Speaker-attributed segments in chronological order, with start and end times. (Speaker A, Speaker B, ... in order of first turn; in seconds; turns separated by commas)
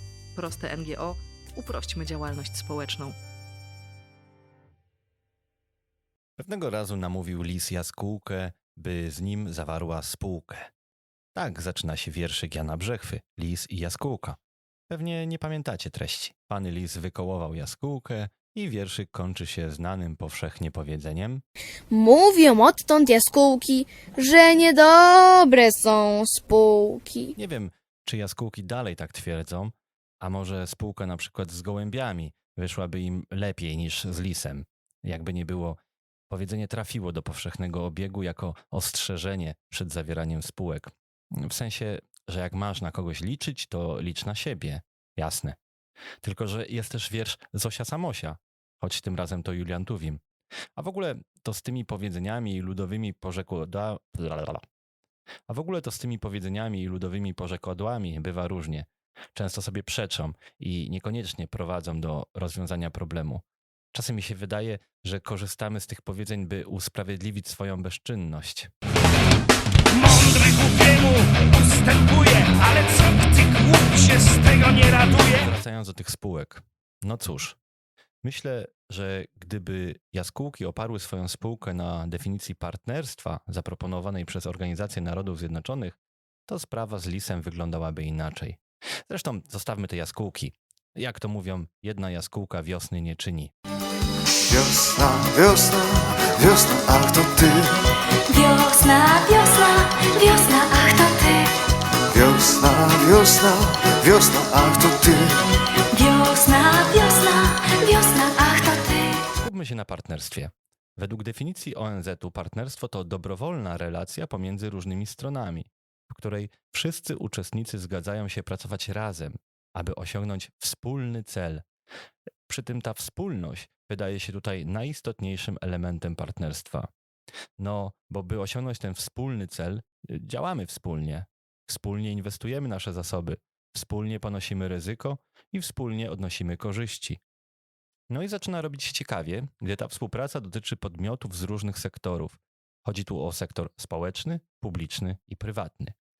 Speaker A: 0.3-3.1, Speaker B: 6.4-10.7, Speaker B: 11.3-14.4, Speaker B: 14.9-21.4, Speaker C: 21.9-27.3, Speaker B: 27.4-35.8, Speaker B: 36.3-45.6, Speaker B: 46.2-50.2, Speaker B: 50.8-54.6, Speaker B: 55.5-68.7, Speaker D: 69.9-75.4, Speaker B: 75.2-77.6, Speaker B: 78.2-93.5, Speaker E: 94.5-97.8, Speaker F: 98.3-101.5, Speaker E: 102.1-105.4, Speaker F: 105.9-109.2, Speaker B: 109.3-121.6, Speaker B: 122.5-126.9, Speaker B: 127.6-137.2, Speaker B: 138.1-146.0